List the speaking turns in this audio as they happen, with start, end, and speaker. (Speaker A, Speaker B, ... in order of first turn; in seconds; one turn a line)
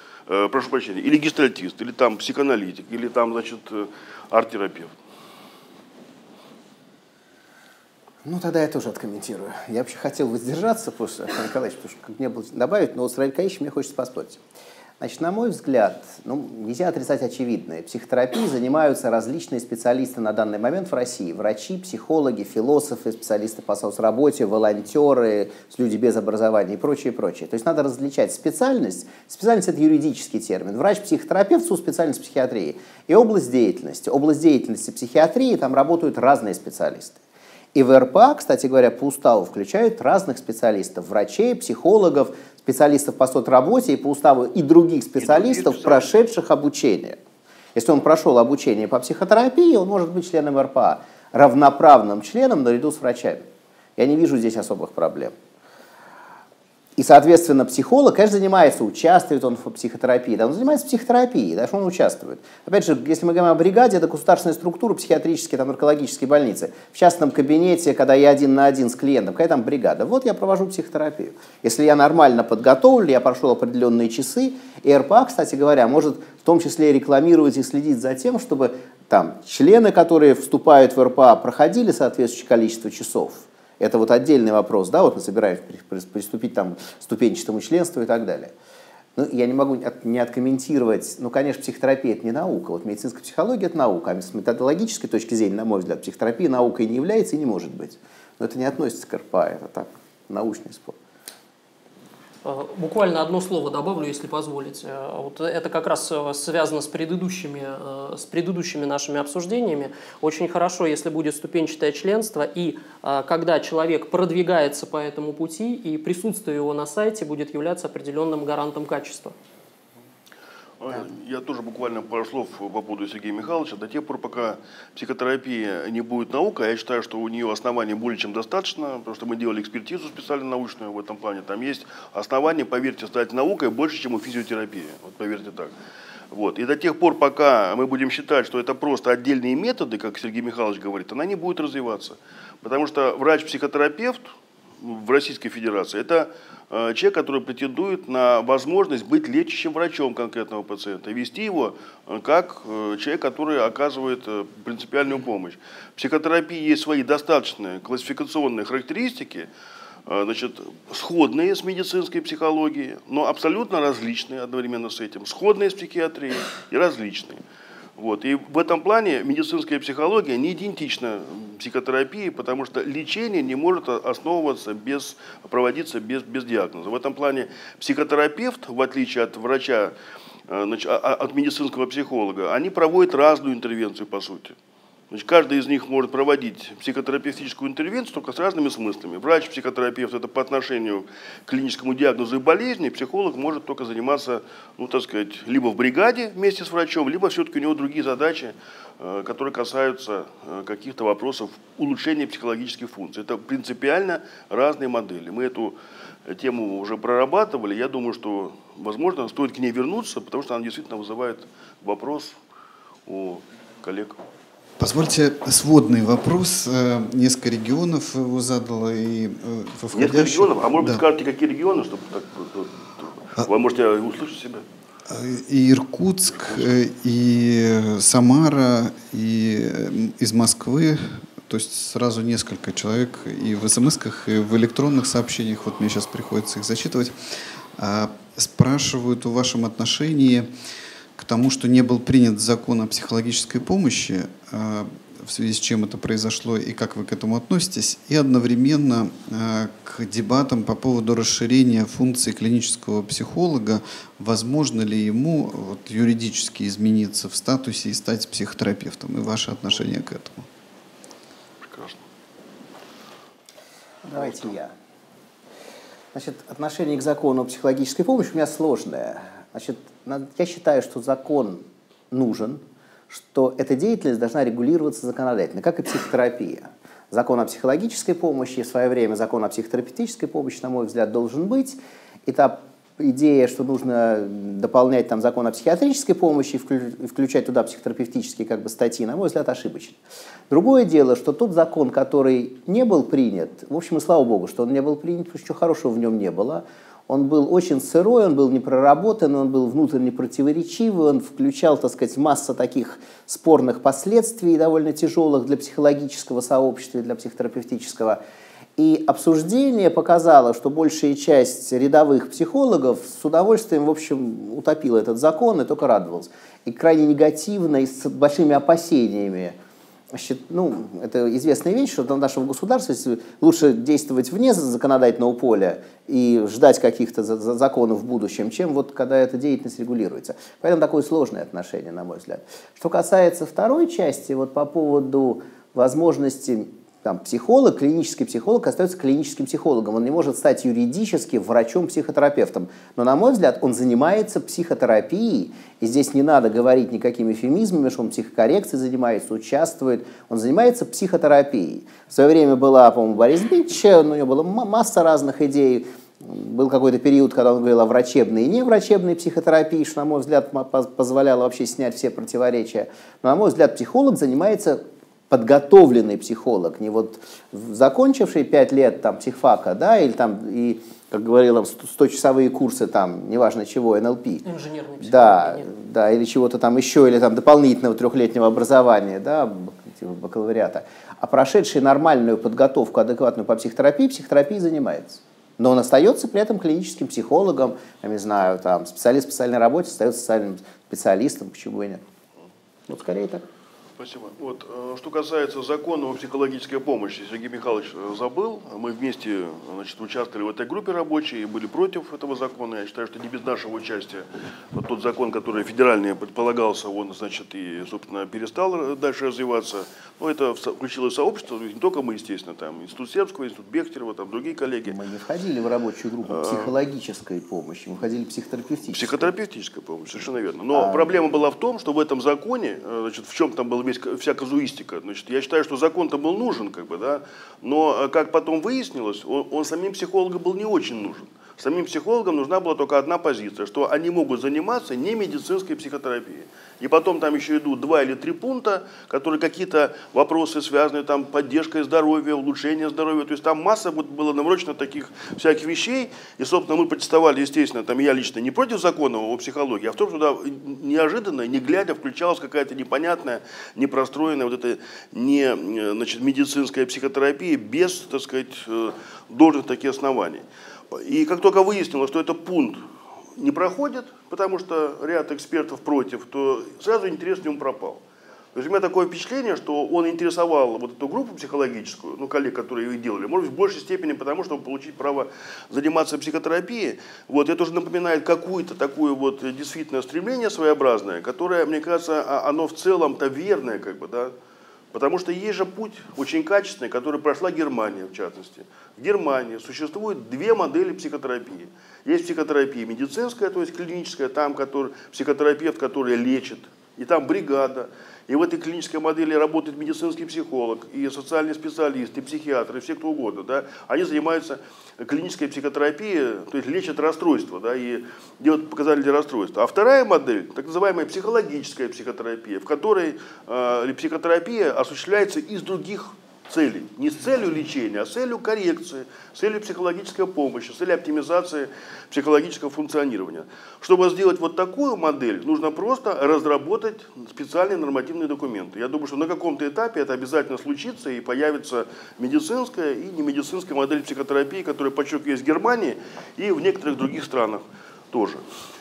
Speaker A: 0.3-4.9
Speaker B: 8.2-14.4
Speaker B: 15.0-37.2
Speaker B: 37.7-47.2
Speaker A: 45.2-46.1
Speaker B: 47.8-53.5
Speaker B: 54.0-55.3
Speaker B: 57.0-88.5
Speaker B: 89.2-101.0
Speaker C: 102.5-119.3
Speaker A: 120.8-135.7
Speaker A: 136.3-159.5
Speaker A: 160.1-167.4
Speaker A: 168.0-179.9
Speaker A: 180.5-184.6
Speaker A: 185.1-212.3
Speaker A: 213.1-214.2
Speaker D: 214.8-221.0
Speaker A: 219.9-224.6
Speaker D: 225.1-237.1
Speaker D: 237.8-240.5
Speaker D: 241.2-260.5
Speaker A: 261.6-262.0
Speaker B: 264.1-264.7
Speaker A: 264.1-264.5
Speaker B: 266.1-290.0
Speaker B: 290.5-308.2
Speaker B: 308.8-319.6
Speaker B: 320.1-374.4
Speaker C: 374.4-375.7
Speaker B: 375.0-392.0
Speaker B: 392.9-393.5
Speaker A: 394.0-415.0
Speaker B: 414.9-419.3
Speaker A: 416.3-416.7
Speaker A: 418.9-462.8
Speaker B: 420.7-421.1
Speaker A: 463.4-468.0
Speaker A: 468.6-484.3
Speaker A: 484.9-538.4